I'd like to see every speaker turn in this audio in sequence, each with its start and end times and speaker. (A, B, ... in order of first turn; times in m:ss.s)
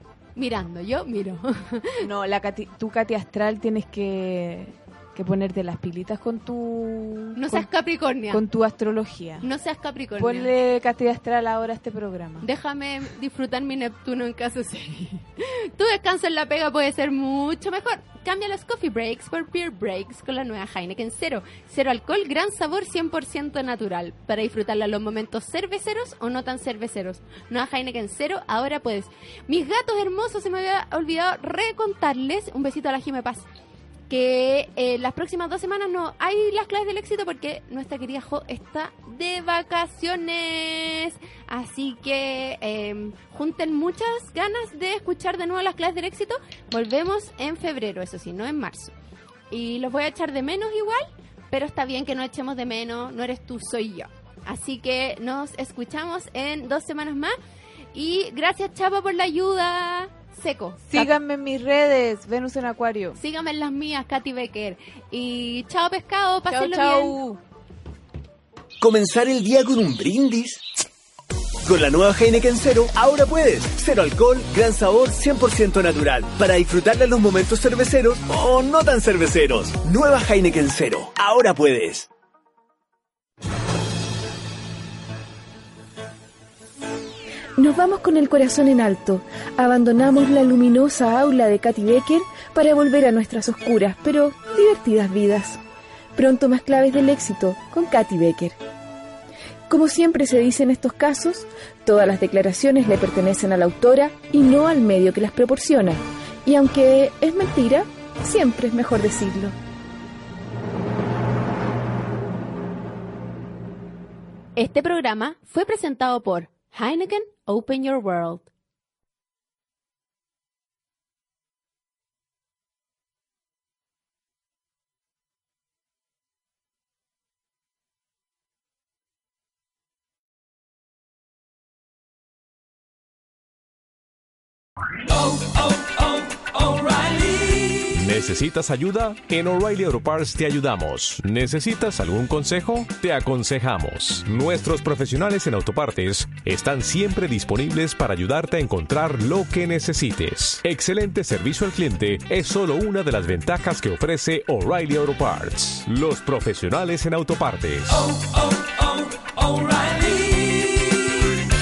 0:00.4-0:02.1 A
0:02.0-0:07.7 B
0:07.4-0:08.4 A
0:08.3-0:09.5 B
0:09.4-0:10.5 A
0:10.2-0:12.5 B
0:12.4-0:33.4 A
0:34.1-0:48.9 A
0:49.5-0:57.4 A
0:57.9-1:01.1 A
1:00.8-1:03.2 B
1:03.2-1:07.2 A
1:06.5-1:07.4 B
1:08.8-1:10.6 C
1:11.6-1:22.1 C
1:27.6-1:35.6 D
1:36.2-1:38.6 D
1:39.7-1:49.6 D
1:54.6-1:58.5 A
2:15.0-2:41.3 E